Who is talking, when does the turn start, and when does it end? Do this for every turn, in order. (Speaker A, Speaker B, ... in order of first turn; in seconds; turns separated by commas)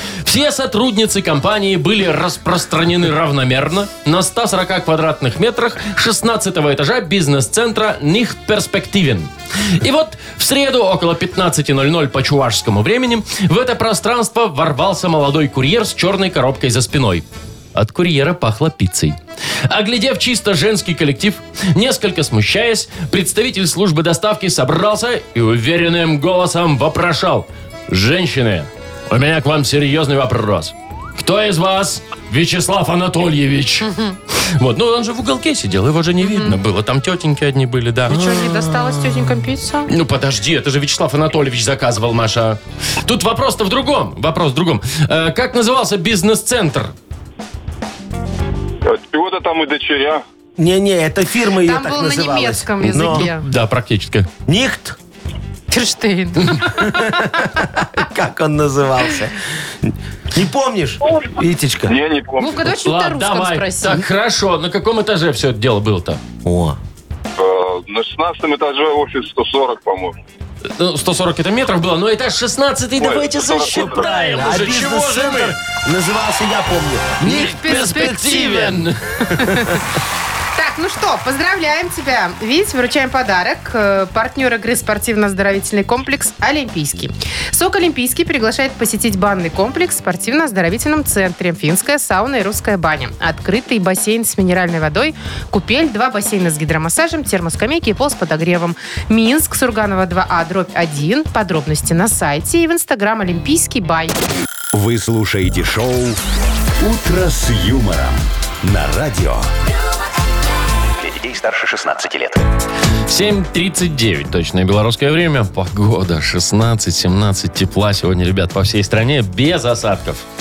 Speaker A: 0.2-33.9, Speaker B: 33.8-34.2, Speaker A: 34.6-38.5, Speaker B: 36.2-36.6, Speaker B: 38.1-39.9, Speaker C: 38.2-38.7, Speaker A: 39.9-46.9, Speaker D: 48.9-50.2, Speaker C: 50.6-53.3, Speaker B: 51.6-53.4, Speaker A: 53.0-54.3, Speaker C: 54.5-55.0, Speaker B: 55.7-57.7, Speaker C: 56.7-62.0, Speaker D: 61.9-62.7, Speaker B: 62.4-64.0, Speaker A: 62.8-66.2, Speaker C: 66.4-66.8, Speaker D: 67.4-70.2, Speaker A: 70.8-75.6, Speaker D: 73.0-74.1, Speaker C: 73.7-78.8, Speaker A: 77.2-79.1, Speaker B: 77.2-78.7, Speaker B: 79.3-79.7, Speaker C: 79.4-79.8, Speaker B: 80.5-104.2, Speaker E: 104.7-106.2, Speaker E: 106.8-109.5, Speaker E: 111.0-112.4, Speaker A: 113.1-120.2